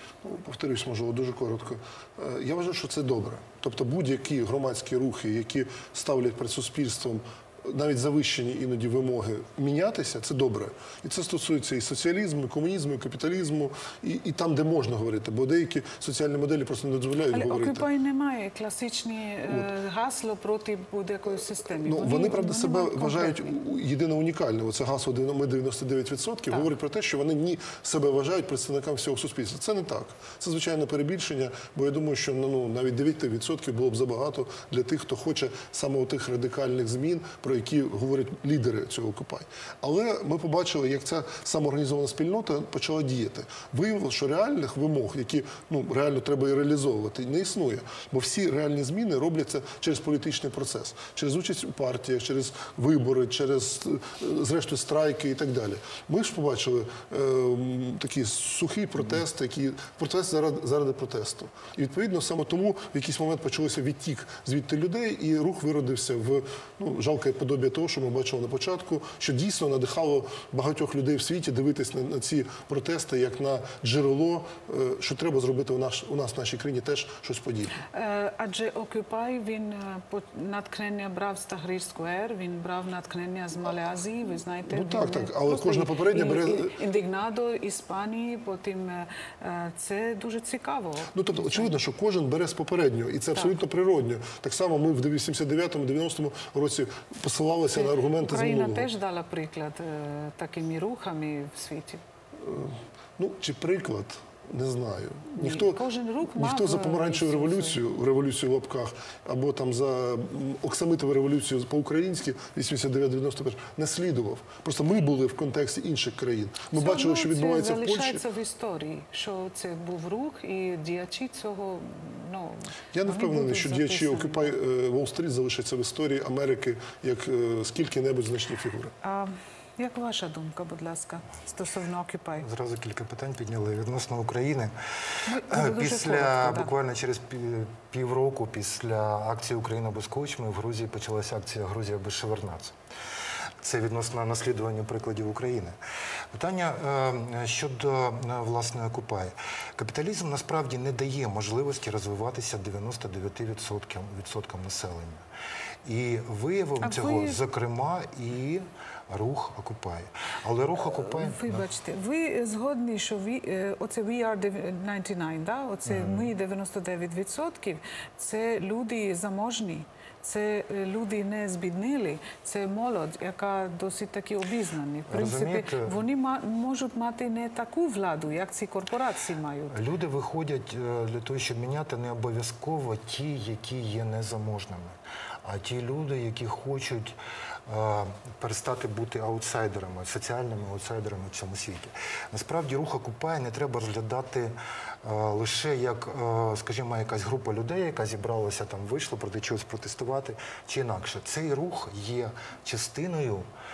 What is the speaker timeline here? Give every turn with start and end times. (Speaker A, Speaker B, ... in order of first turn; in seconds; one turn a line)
Speaker A: 0.2-17.9
Speaker B: 17.3-23.5
Speaker A: 21.6-77.8
Speaker B: 77.8-91.7
Speaker A: 84.7-86.8
Speaker A: 91.1-98.9
Speaker B: 97.8-102.0
Speaker A: 102.3-118.2
Speaker B: 105.3-107.8
Speaker B: 116.7-124.5
Speaker A: 122.9-128.9
Speaker B: 129.0-132.4
Speaker C: 132.4-134.7
Speaker B: 135.2-136.7
Speaker C: 135.5-142.8
Speaker C: 143.6-145.8
Speaker C: 146.3-155.2
Speaker C: 155.8-161.7
Speaker B: 156.8-157.4
Speaker B: 160.9-179.8
Speaker C: 165.8-166.3
Speaker C: 175.1-176.0
Speaker C: 179.7-187.2
Speaker C: 187.7-203.5